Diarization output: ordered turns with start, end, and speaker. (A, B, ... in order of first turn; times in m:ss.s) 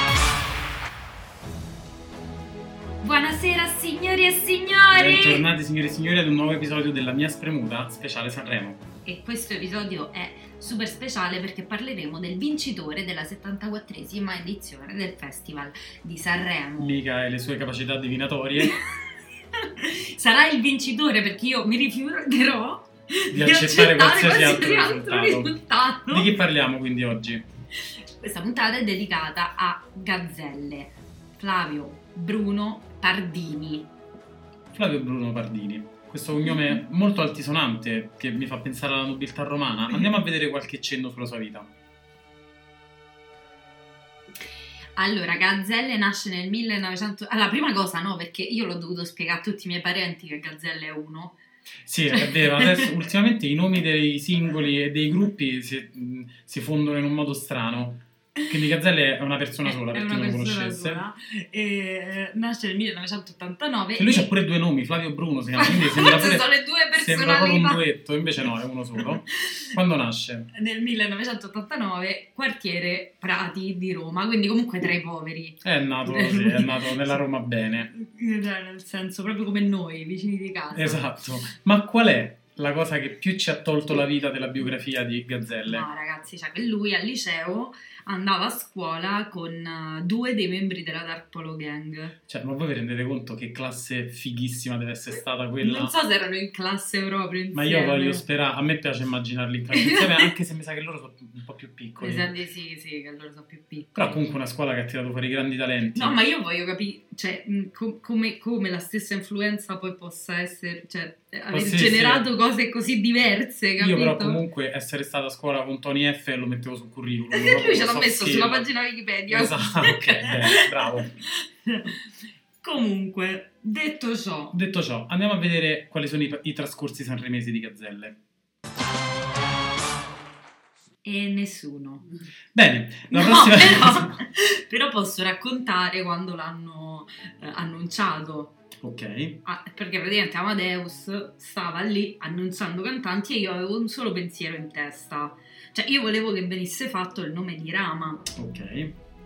0:03.0-0:05.4 A
0:04.9-0:08.8 B
0:09.0-0:17.0 A
0:16.8-0:18.8 B
0:18.6-0:19.0 A
0:19.5-0:26.3 A
0:23.3-0:25.5 B
0:26.1-0:27.4 B
0:28.2-0:33.9 A
0:34.7-0:41.7 B
0:45.0-0:51.4 A
0:51.8-1:01.0 B
0:52.2-0:52.9 A
0:59.6-1:04.3 A
1:04.0-1:10.5 B
1:05.6-1:07.8 A
1:09.0-1:09.7 A
1:10.5-1:17.2 A
1:15.6-1:17.9 B
1:17.9-1:21.1 A
1:20.7-1:25.9 B
1:25.7-1:32.2 A
1:32.3-1:35.9 B
1:35.6-1:38.2 A
1:37.5-1:42.3 B
1:39.7-1:40.3 A
1:42.0-1:44.2 A
1:43.9-1:46.2 B
1:45.9-1:54.4 A
1:51.5-1:52.3 B
1:53.8-1:58.7 B
1:57.3-2:02.0 A
1:59.3-2:01.1 B
2:02.6-2:04.6 A
2:04.5-2:08.2 B
2:11.0-2:12.0 A
2:12.5-2:14.1 B
2:13.1-2:18.5 A
2:18.8-2:19.4 B
2:19.4-2:28.3 A
2:28.3-2:28.9 B